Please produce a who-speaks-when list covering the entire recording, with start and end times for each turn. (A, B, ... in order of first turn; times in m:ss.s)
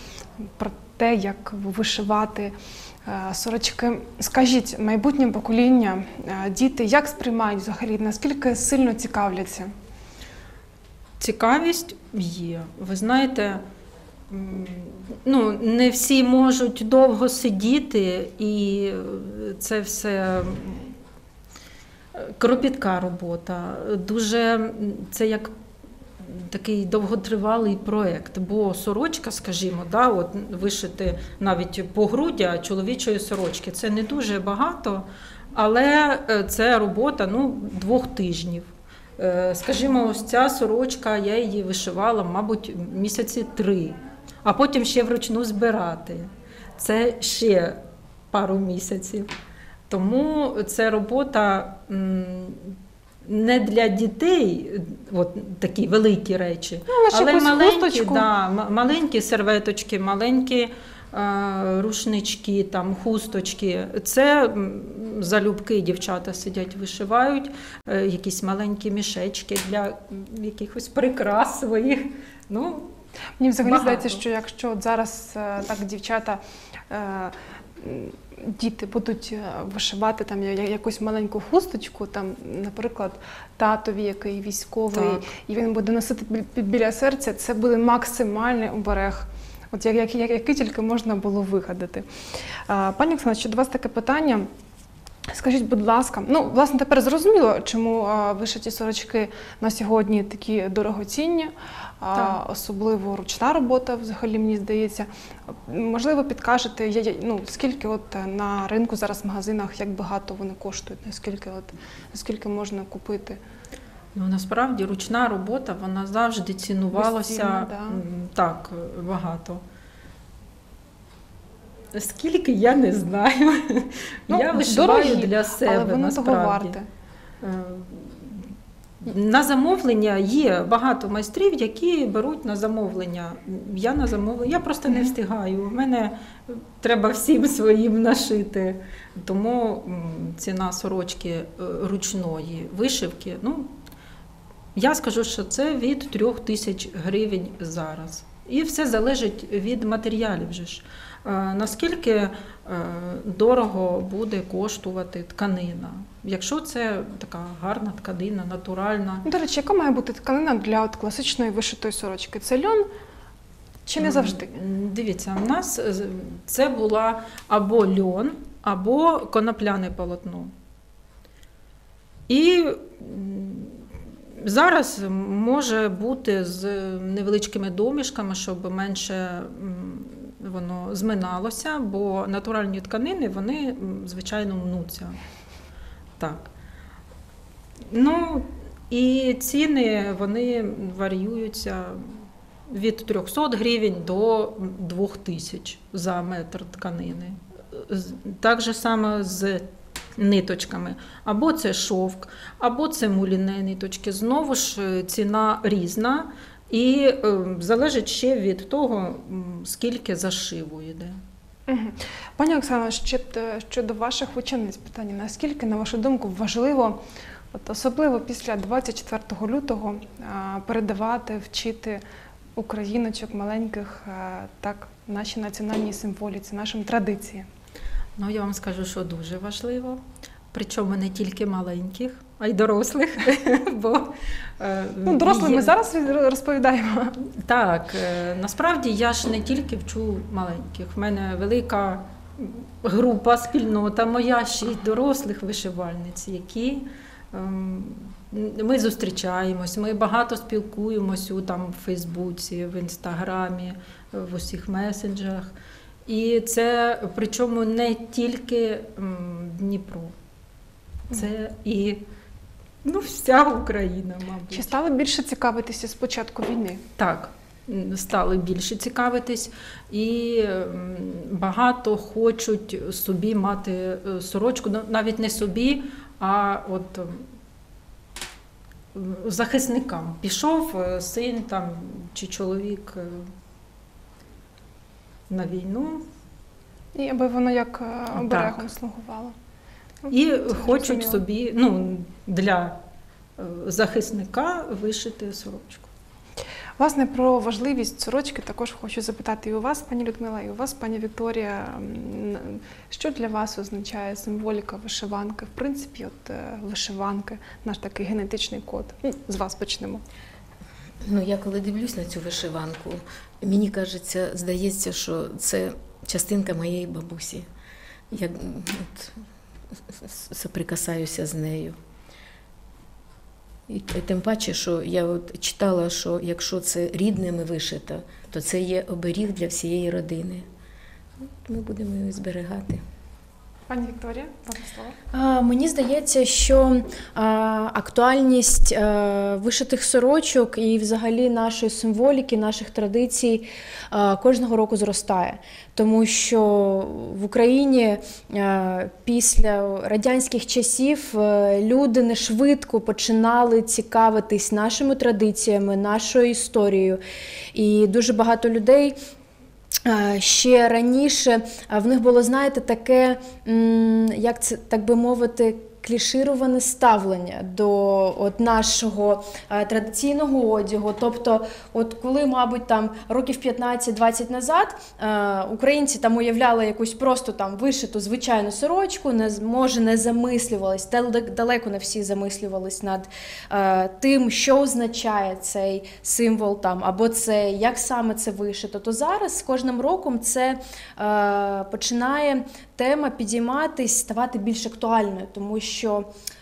0:00.4-0:09.7 A
0:11.2-0:13.6 B
0:14.3-0:21.0 B
0:22.2-0:25.5 B
0:26.2-0:47.8 B
0:48.3-0:49.3 B
0:49.9-1:12.9 B
0:56.9-0:58.3 A
1:13.4-1:34.5 A
1:13.6-1:14.2 B
1:24.9-1:25.2 B
1:35.3-1:53.4 A
1:54.2-1:59.6 B
1:57.0-1:58.0 A
2:01.9-2:06.8 B
2:04.3-2:06.9 A
2:07.4-2:08.5 B
2:09.0-2:23.7 B
2:24.8-2:39.3 B
2:39.2-2:42.9 A
2:43.9-2:44.5 A
2:44.0-2:50.5 B
2:52.3-2:53.9 B
2:54.4-3:05.2 B
3:06.2-3:06.5 B
3:07.9-3:19.6 B
3:20.2-3:31.2 B
3:31.7-3:37.0 A
3:37.5-3:42.0 A
3:42.6-3:47.5 A
3:48.2-3:55.7 B
3:55.1-3:57.2 A
3:57.2-4:15.5 B
4:16.1-4:20.1 B
4:21.1-4:22.1 B
4:22.8-4:24.8 B
4:24.5-4:26.8 A
4:27.0-4:37.3 B
4:38.9-4:43.3 B
4:45.3-4:46.0 B
4:46.9-4:49.3 A
4:48.2-4:48.7 B
4:50.0-4:51.2 A
4:50.1-4:52.8 B
4:53.4-4:55.9 B
4:56.8-5:10.0 A
5:11.0-5:17.5 C
5:18.1-5:19.2 C
5:19.9-5:21.8 C
5:23.7-5:30.5 C
5:31.4-5:32.8 C
5:33.7-5:35.0 A
5:35.1-5:57.0 D
5:57.5-5:59.0 D
5:59.8-6:36.1 D